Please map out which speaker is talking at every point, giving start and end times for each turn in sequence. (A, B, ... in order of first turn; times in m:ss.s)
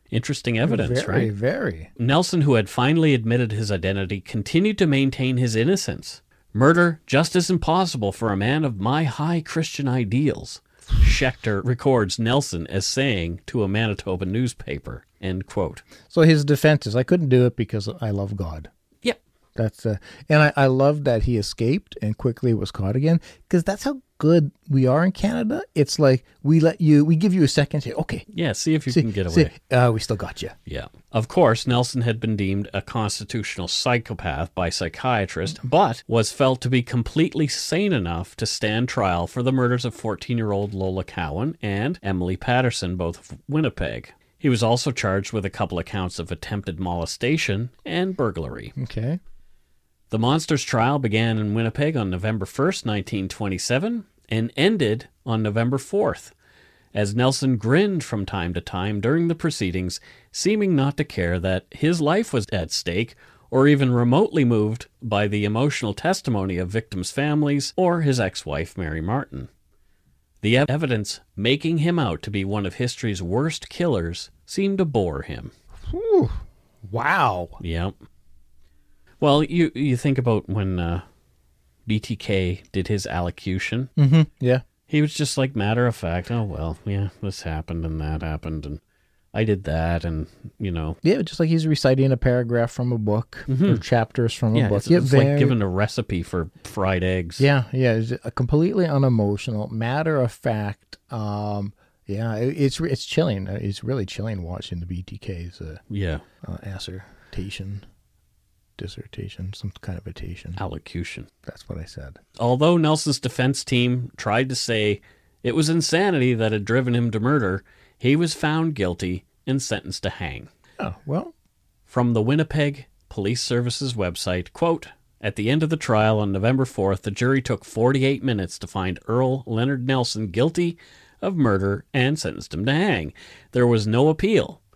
0:00.1-0:01.3 A
0:00.6-0:01.9 B
0:02.0-0:15.8 A
0:16.1-0:18.7 B
0:19.6-0:28.3 B
0:28.3-0:29.5 A
0:28.9-0:30.6 B
0:30.7-0:48.8 A
0:48.8-0:49.2 B
0:50.1-0:56.3 A
0:56.9-1:09.5 A
1:10.4-1:15.5 A
1:15.9-1:17.6 B
1:17.6-1:18.0 A
1:19.2-1:21.0 A
1:21.9-1:23.9 A
1:24.0-1:24.6 B
1:24.9-1:28.8 A
1:29.3-1:31.0 A
1:31.0-1:35.6 B
1:33.5-1:33.8 A
1:34.5-1:37.5 A
1:37.4-1:45.8 B
1:45.9-1:46.2 A
1:46.4-1:47.8 B
1:48.8-1:50.6 B
1:50.6-1:51.3 A
1:51.5-1:52.2 B
1:52.4-2:00.5 A
2:00.8-2:01.3 B
2:01.9-2:14.6 A